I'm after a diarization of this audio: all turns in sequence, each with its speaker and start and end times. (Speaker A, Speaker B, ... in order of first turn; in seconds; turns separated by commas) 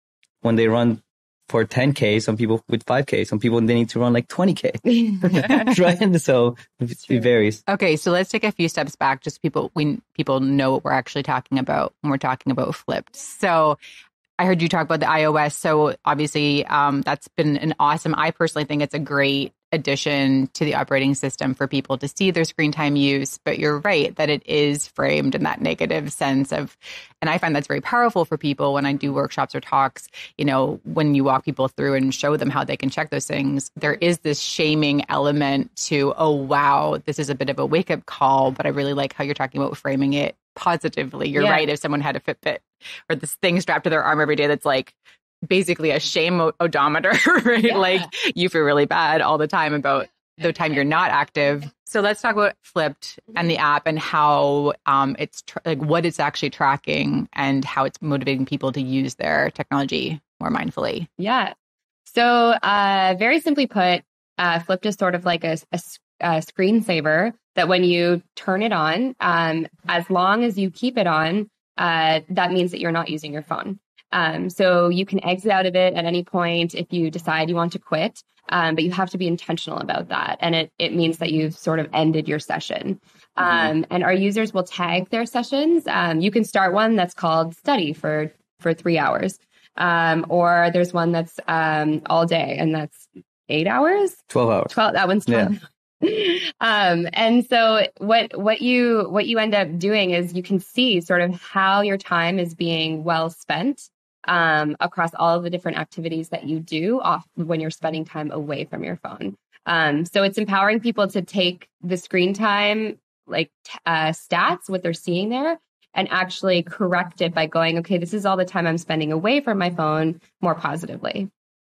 Speaker A: 0.4-7.6, Speaker B: 4.8-5.8, Speaker C: 7.7-13.8, Speaker C: 14.4-45.0, Speaker B: 41.3-41.7, Speaker C: 45.5-61.1, Speaker B: 47.7-48.1, Speaker B: 61.2-61.5, Speaker B: 62.1-121.3, Speaker A: 94.3-94.8, Speaker A: 95.3-95.5